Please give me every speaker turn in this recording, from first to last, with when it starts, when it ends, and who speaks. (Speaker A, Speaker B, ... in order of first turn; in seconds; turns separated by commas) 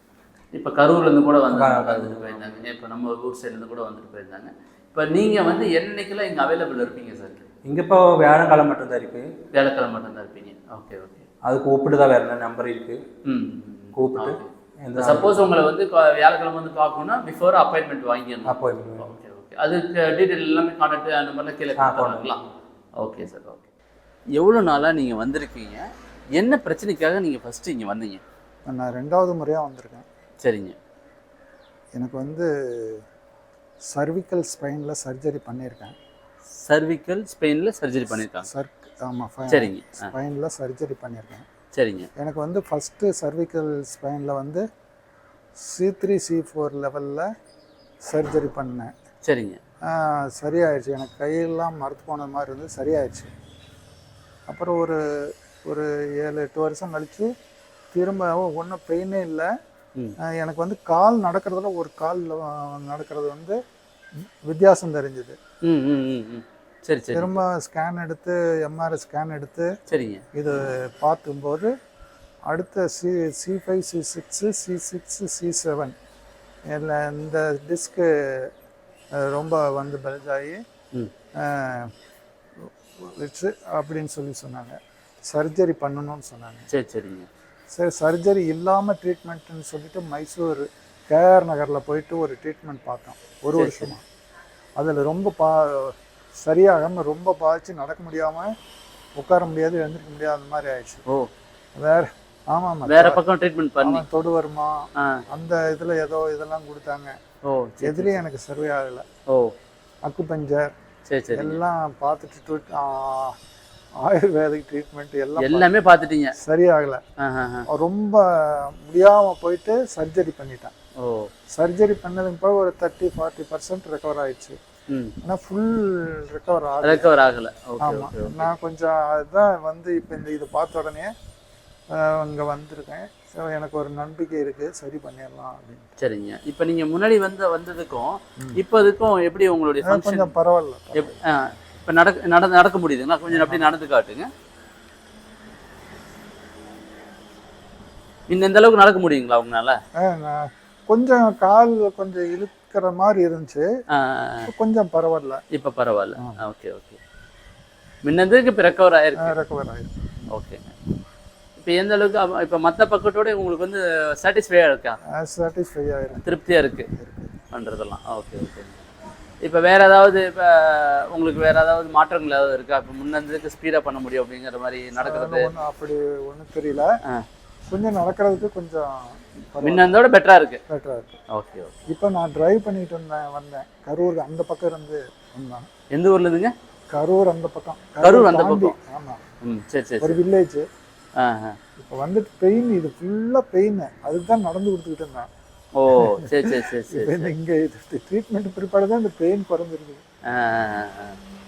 Speaker A: 0.5-7.4, Speaker B: 1.5-2.6, Speaker B: 7.7-9.3, Speaker A: 9.5-11.2, Speaker B: 11.4-13.0, Speaker A: 13.2-22.4, Speaker B: 13.9-15.4, Speaker B: 18.4-19.1, Speaker B: 21.8-22.4, Speaker A: 23.0-23.7, Speaker A: 24.4-28.2, Speaker C: 28.7-30.1, Speaker A: 30.4-30.8, Speaker C: 32.0-33.0, Speaker C: 33.9-36.0, Speaker A: 36.6-38.5, Speaker C: 38.5-41.5, Speaker A: 39.5-40.1, Speaker A: 41.7-42.1, Speaker C: 42.2-44.6, Speaker C: 45.6-47.3, Speaker C: 48.1-48.9, Speaker A: 49.2-49.6, Speaker C: 49.9-53.3, Speaker C: 54.5-55.0, Speaker C: 55.6-57.3, Speaker C: 57.9-59.5, Speaker C: 60.4-63.6, Speaker C: 64.4-65.4, Speaker A: 65.6-67.3, Speaker C: 67.1-69.7, Speaker A: 69.9-70.2, Speaker C: 70.3-71.7, Speaker C: 72.5-76.0, Speaker C: 76.7-78.5, Speaker C: 79.3-80.6, Speaker C: 81.5-81.9, Speaker C: 83.0-84.8, Speaker C: 85.3-86.7, Speaker A: 86.7-87.3, Speaker C: 87.8-94.0, Speaker A: 93.5-93.9, Speaker C: 94.8-98.5, Speaker C: 99.2-101.0, Speaker C: 101.8-103.2, Speaker A: 102.9-104.0, Speaker C: 103.8-107.2, Speaker A: 105.0-105.2, Speaker A: 107.5-108.2, Speaker C: 107.8-109.0, Speaker A: 109.3-109.5, Speaker C: 110.0-110.7, Speaker A: 111.1-111.6, Speaker C: 111.3-113.4, Speaker C: 114.0-115.7, Speaker A: 115.4-116.3, Speaker C: 116.4-117.0, Speaker A: 117.2-117.7, Speaker C: 117.7-118.2, Speaker C: 118.8-120.7, Speaker A: 121.0-121.3, Speaker C: 121.6-124.6, Speaker A: 124.9-125.2, Speaker C: 125.2-127.1, Speaker A: 126.8-128.5, Speaker C: 127.8-131.1, Speaker C: 131.9-136.0, Speaker A: 136.0-140.3, Speaker C: 139.8-141.2, Speaker A: 140.9-144.3, Speaker C: 143.3-143.7, Speaker A: 148.3-149.8, Speaker C: 150.0-153.7, Speaker A: 153.9-154.5, Speaker C: 154.5-155.4, Speaker A: 155.5-157.0, Speaker A: 158.0-159.4, Speaker C: 159.2-160.3, Speaker A: 160.3-160.8, Speaker A: 161.6-165.0, Speaker C: 165.2-166.4, Speaker A: 166.2-166.9, Speaker C: 166.9-167.4, Speaker A: 167.5-168.8, Speaker A: 169.4-175.5, Speaker C: 175.0-176.9, Speaker C: 177.7-178.9, Speaker C: 179.5-180.0, Speaker A: 179.6-180.6, Speaker C: 180.7-181.2, Speaker A: 181.3-181.7, Speaker C: 181.9-185.7, Speaker A: 185.9-186.5, Speaker C: 186.9-189.2, Speaker A: 188.0-188.8, Speaker A: 189.4-190.2, Speaker C: 190.0-190.7, Speaker A: 191.2-191.6, Speaker C: 191.8-195.3, Speaker A: 195.8-197.3, Speaker C: 196.0-200.0, Speaker A: 200.3-201.2